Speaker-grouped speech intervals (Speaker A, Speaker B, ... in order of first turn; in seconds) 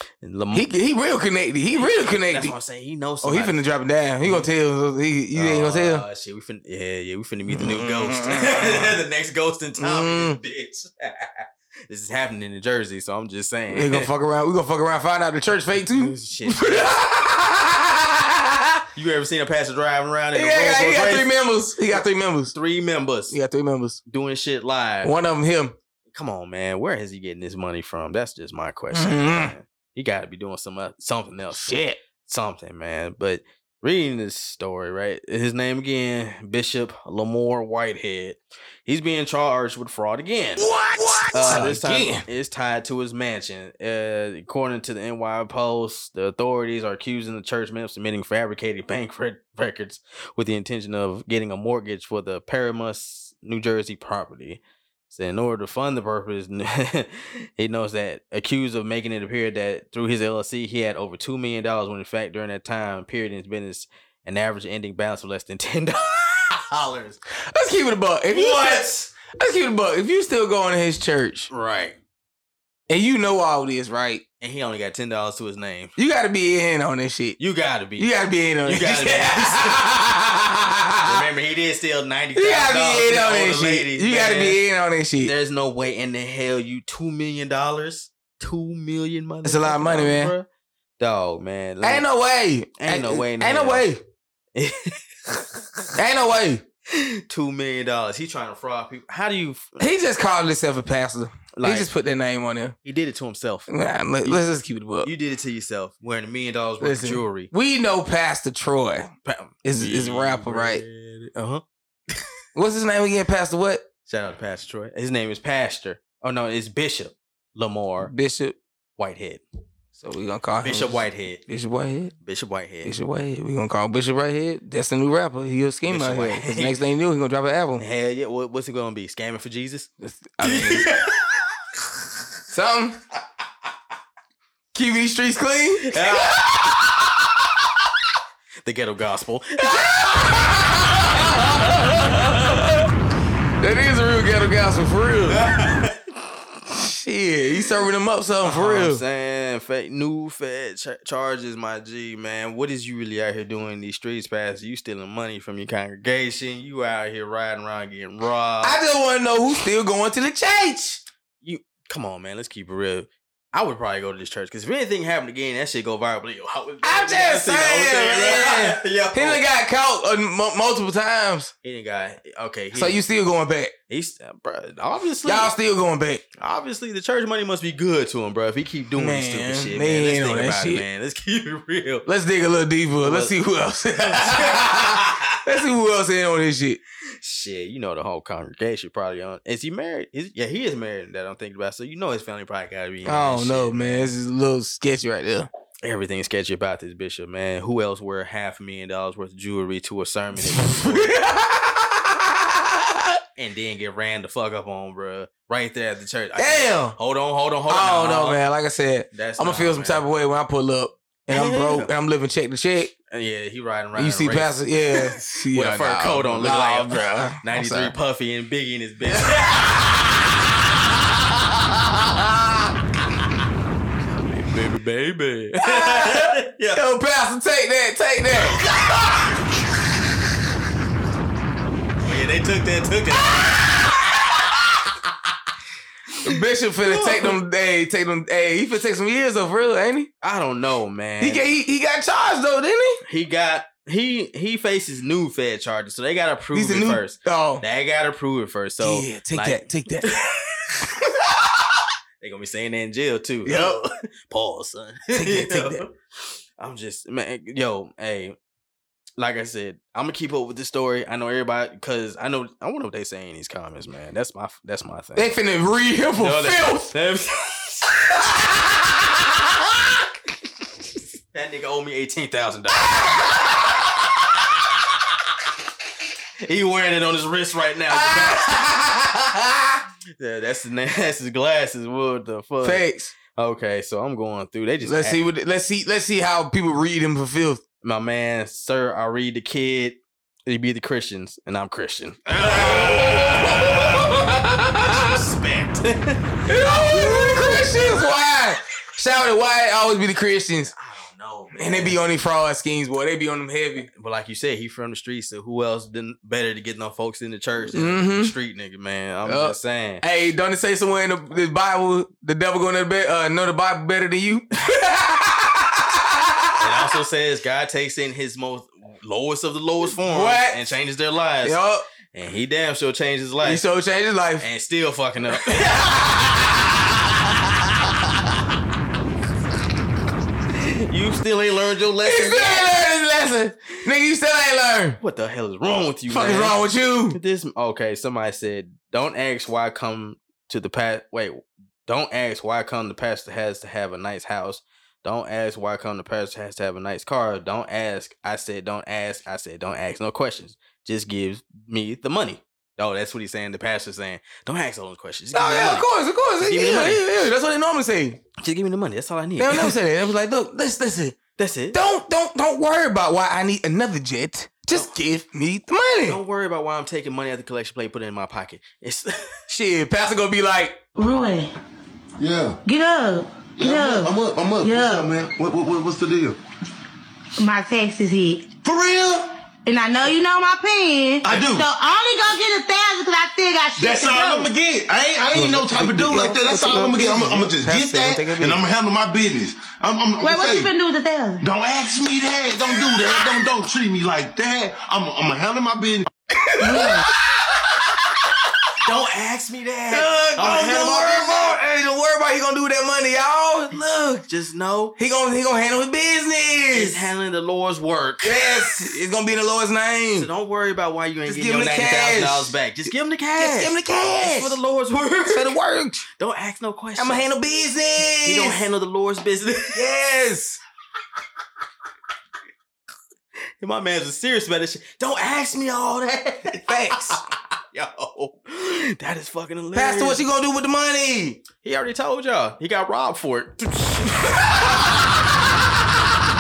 Speaker A: 0.2-0.7, 1.8-3.6, 4.2-4.5, 5.3-14.1, 15.9-16.9, 18.9-23.4, 24.1-25.1, 26.1-40.7, 41.3-67.2, 68.3-69.1, 71.5-72.0, 74.4-76.0, 77.4-78.1, 78.7-79.9, 81.0-84.6, 85.2-90.5, 91.0-92.1, 92.8-93.9, 94.5-95.5, 96.9-99.9, 101.5-101.9, 102.8-103.7, 105.0-107.5, 109.2-112.2, 114.1-118.1, 119.0-119.4, 120.6-121.4, 122.2-123.0, 125.9-126.8, 127.8-129.9, 130.4-131.4, 135.8-136.4, 138.7-141.3, 145.3-146.1, 148.4-158.8, 161.4-169.4, 171.6-173.0, 173.9-175.5, 176.4-182.1, 183.0-183.4, 184.0-185.4, 187.2-194.1, 195.8-201.2, 203.4-208.4, 209.1-210.0, 211.3-211.9, 213.1-219.7, 224.3-226.8, 232.0-234.4, 236.8-237.4, 240.2-241.5, 243.0-250.3, 252.2-255.9, 256.6-258.4, 259.2-265.3, 266.2-268.2, 271.3-273.2, 276.4-278.5, 280.2-285.2, 287.8-297.5, 300.6-302.0, 303.9-310.0, 316.6-321.6, 322.1-323.6, 324.4-326.0, 330.5-332.8, 335.0-336.6, 337.1-357.1, 358.4-359.8, 361.4-361.8, 364.7-365.0, 366.1-369.4, 398.8-401.6, 404.3-405.0, 406.7-408.8, 410.2-415.5, 416.2-417.3, 418.2-419.8, 423.6-430.2, 431.6-434.6
Speaker B: 0.5-2.6, 3.2-6.0, 7.5-9.0, 9.8-10.4, 13.7-18.8, 20.3-22.5, 23.3-24.0, 25.0-25.8, 28.9-29.6, 31.5-32.0, 40.6-42.2, 67.5-71.5, 72.9-74.2, 76.0-77.4, 78.0-81.2, 82.4-85.3, 89.4-90.3, 91.8-94.0, 96.0-96.6, 99.8-102.8, 103.7-105.1, 106.8-109.1, 109.6-110.8, 112.5-113.9, 118.0-118.6, 120.0-122.1, 122.8-127.8, 130.0-130.9, 132.5-133.0, 134.7-137.6, 139.6-142.9, 143.6-145.4, 146.7-149.0, 158.6-161.0, 166.8-171.5, 172.7-173.7, 175.2-176.2, 179.0-180.8, 182.1-186.8, 193.1-195.5, 200.4-203.2, 206.4-207.0, 207.7-212.9, 213.9-217.9, 219.1-222.5, 225.6-229.3, 233.4-234.6, 236.2-240.1, 241.2-243.0, 246.5-247.6, 248.8-250.2, 250.8-251.8, 253.4-253.8, 255.1-255.8, 265.2-266.9, 268.2-269.9, 272.9-274.0, 277.9-279.8, 282.6-283.1, 284.9-287.6, 292.3-295.2, 296.5-300.7, 301.5-303.9, 307.7-308.3, 309.2-316.9, 319.9-320.6, 321.4-321.9, 323.4-324.5, 325.3-328.1, 332.0-335.0, 336.1-337.2, 355.3-358.2, 359.4-361.2, 361.7-366.2, 369.5-370.8, 385.3-388.7, 396.5-398.3, 399.9-404.2, 405.0-407.0, 408.2-410.3, 411.3-412.6, 413.4-414.6, 415.3-416.0, 417.0-418.6, 419.7-420.6, 426.5-427.2, 429.7-431.4, 434.4-434.9
Speaker C: 371.0-371.5, 372.6-375.1, 377.4-378.5, 379.7-384.5, 390.2-391.5, 396.6-397.1
Speaker D: 372.2-372.6, 373.6-376.4, 378.6-379.3, 381.2-381.7, 383.8-390.7, 391.4-396.1